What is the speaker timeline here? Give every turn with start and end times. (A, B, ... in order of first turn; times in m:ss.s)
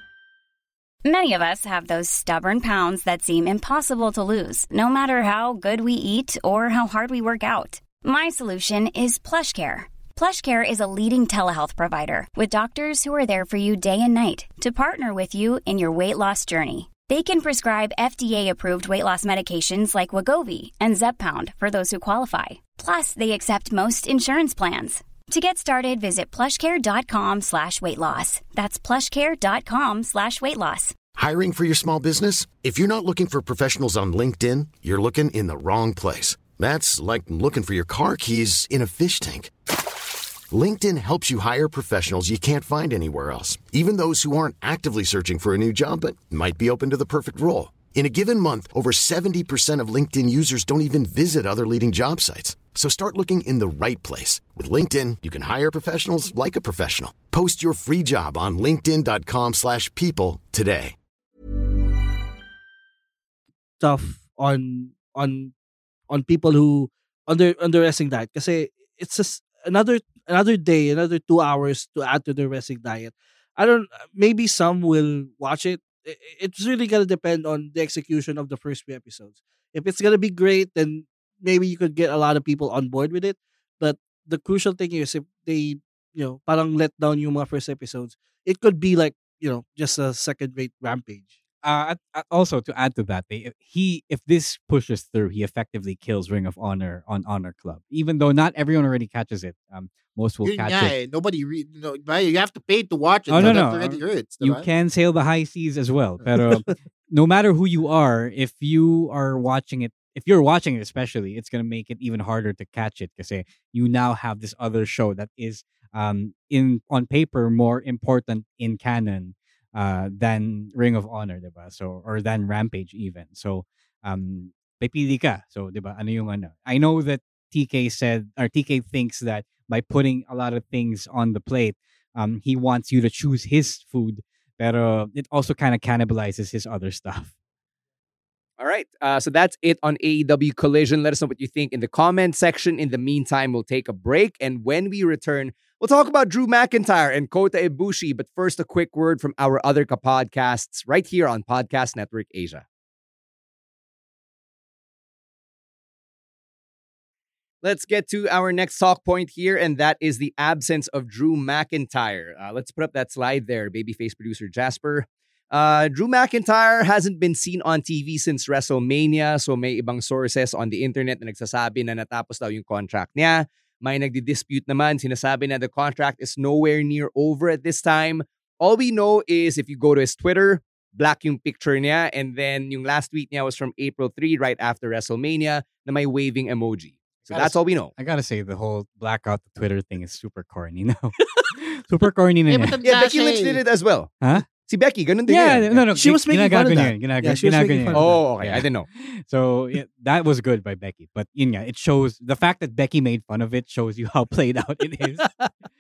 0:01.0-0:31.0 A
0:31.2-0:39.5 B
0:40.5-1:01.0 B
1:03.8-1:05.5 C
1:06.1-1:31.3 C
1:31.6-1:41.0 D
1:40.4-1:44.7 E
1:43.3-2:17.3 D
2:18.6-2:32.6 F
2:37.6-3:07.9 F
3:07.3-3:07.6 E
3:08.0-3:12.8 D
3:12.5-3:13.6 E
3:12.8-3:15.8 F
3:15.3-3:25.3 D
3:15.9-3:18.2 C
3:17.9-3:18.9 F
3:25.2-3:25.5 C